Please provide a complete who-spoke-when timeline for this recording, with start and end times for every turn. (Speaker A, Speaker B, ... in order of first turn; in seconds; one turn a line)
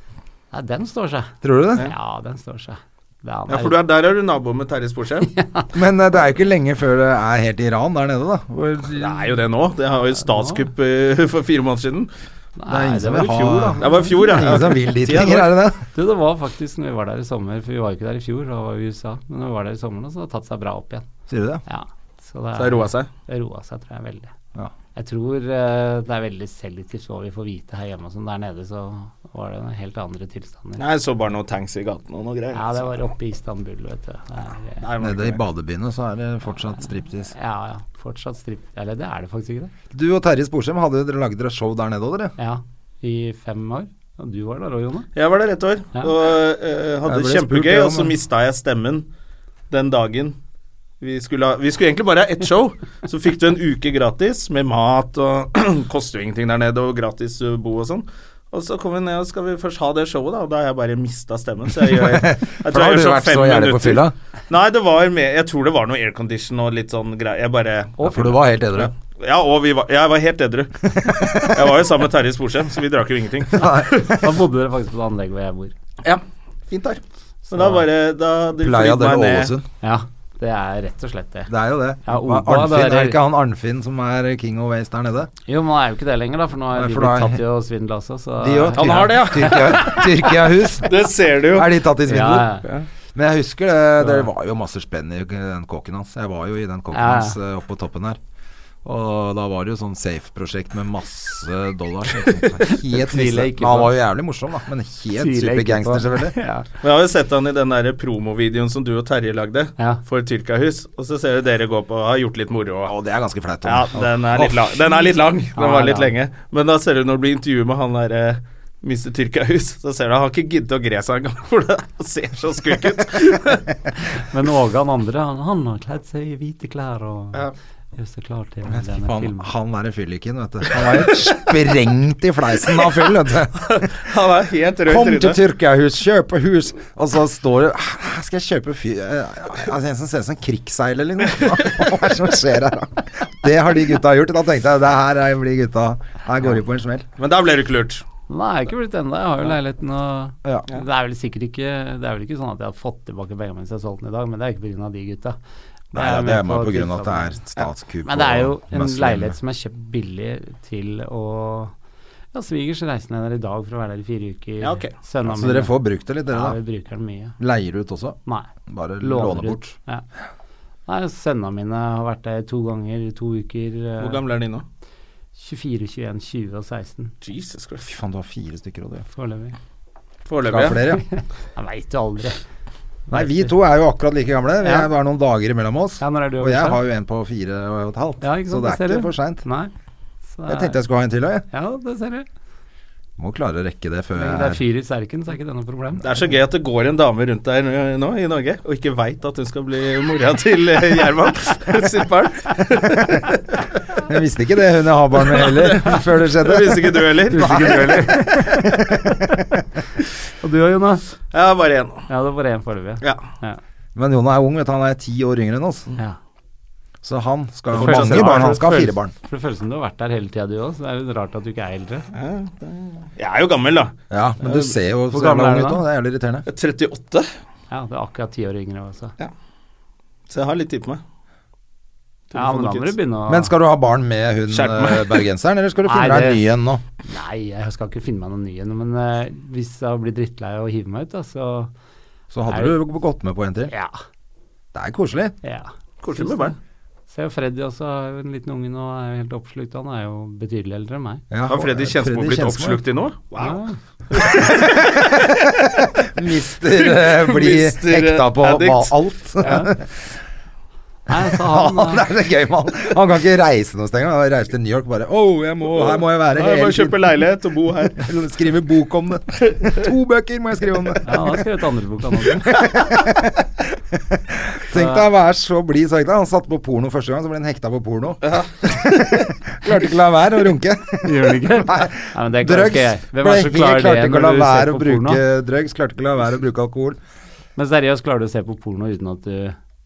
Speaker A: 0.5-3.8
Speaker B: 1.4-1.9
Speaker C: 3.5-5.3
Speaker A: 5.3-5.7
Speaker B: 5.7-9.3
Speaker C: 8.9-12.1
Speaker A: 10.3-10.7
Speaker A: 12.6-14.4
Speaker B: 12.7-15.8
Speaker C: 13.8-15.6
Speaker A: 15.9-21.1
Speaker B: 21.3-21.6
Speaker A: 21.7-24.3
Speaker C: 22.6-23.1
Speaker A: 24.9-30.8
Speaker C: 30.8-33.0
Speaker A: 32.5-34.9
Speaker C: 34.8-35.4
Speaker B: 35.0-37.3
Speaker A: 37.2-39.7
Speaker B: 39.9-42.4
Speaker A: 42.4-45.1
Speaker C: 45.1-49.1
Speaker B: 47.0-48.2
Speaker C: 49.7-50.4
Speaker C: 51.0-68.1
Speaker B: 61.9-64.2
Speaker A: 68.0-68.4
Speaker B: 68.0-68.9
Speaker C: 68.8-74.2
Speaker B: 71.0-71.6
Speaker B: 73.6-74.0
Speaker A: 73.6-75.7
Speaker C: 76.0-79.5
Speaker A: 77.5-77.8
Speaker B: 78.6-79.7
Speaker A: 79.8-81.5
Speaker B: 81.5-85.3
Speaker A: 82.0-83.2
Speaker A: 85.5-90.3
Speaker B: 86.7-87.4
Speaker B: 88.4-92.5
Speaker C: 88.8-90.1
Speaker C: 90.8-91.7
Speaker A: 92.1-92.7
Speaker B: 93.2-98.2
Speaker A: 96.9-97.4
Speaker B: 98.8-106.4
Speaker A: 102.6-104.0
Speaker A: 105.1-106.7
Speaker C: 106.8-113.0
Speaker B: 112.9-114.8
Speaker C: 113.6-123.7
Speaker A: 115.5-116.1
Speaker A: 124.1-127.4
Speaker A: 128.0-129.5
Speaker B: 128.7-133.8
Speaker C: 133.6-135.4
Speaker B: 134.9-147.1
Speaker C: 147.2-148.1
Speaker A: 148.3-155.4
Speaker A: 155.9-157.4
Speaker B: 155.9-159.4
Speaker A: 158.1-161.7
Speaker A: 162.3-167.4
Speaker C: 164.6-164.9
Speaker B: 165.2-166.6
Speaker B: 167.4-169.8
Speaker A: 168.3-170.0
Speaker A: 170.9-174.2
Speaker C: 174.0-174.7
Speaker A: 175.4-177.1
Speaker C: 177.2-177.9
Speaker B: 177.9-179.1
Speaker A: 179.1-179.6
Speaker C: 180.3-180.9
Speaker B: 180.4-181.0
Speaker A: 181.1-182.4
Speaker A: 183.1-183.5
Speaker B: 183.1-189.4
Speaker A: 184.6-184.9
Speaker A: 186.0-186.8
Speaker A: 188.2-189.7
Speaker A: 190.3-190.8
Speaker B: 190.5-191.5
Speaker A: 191.5-192.3
Speaker B: 193.2-194.6
Speaker A: 194.2-196.1
Speaker C: 196.0-203.6
Speaker B: 204.0-209.4
Speaker C: 205.3-208.0
Speaker A: 207.3-209.5
Speaker A: 210.4-211.1
Speaker C: 211.3-212.1
Speaker A: 212.1-213.6
Speaker B: 213.9-215.9
Speaker B: 217.0-219.1
Speaker C: 217.7-218.6
Speaker A: 217.8-222.1
Speaker C: 222.1-224.7
Speaker B: 224.1-226.5
Speaker A: 225.1-225.8
Speaker C: 226.5-227.3
Speaker A: 227.7-229.2
Speaker C: 230.3-231.0
Speaker C: 232.3-232.9
Speaker A: 232.3-233.5
Speaker B: 233.3-236.8
Speaker C: 234.5-235.2
Speaker A: 235.8-236.4
Speaker A: 237.1-241.7
Speaker B: 242.3-243.7
Speaker A: 242.5-242.8
Speaker A: 243.7-244.0
Speaker B: 244.7-245.4
Speaker A: 245.4-246.5
Speaker C: 246.0-246.6
Speaker A: 247.1-251.2
Speaker B: 251.3-252.8
Speaker C: 251.5-255.5
Speaker A: 253.4-253.8
Speaker B: 254.2-260.1
Speaker C: 256.8-259.6
Speaker A: 259.4-259.7
Speaker A: 261.1-262.1
Speaker B: 261.2-267.2
Speaker C: 265.8-268.1
Speaker B: 267.9-271.4
Speaker A: 271.1-272.6
Speaker B: 272.4-287.0
Speaker A: 274.7-275.1
Speaker C: 278.2-279.3
Speaker A: 281.0-285.2
Speaker A: 287.6-289.6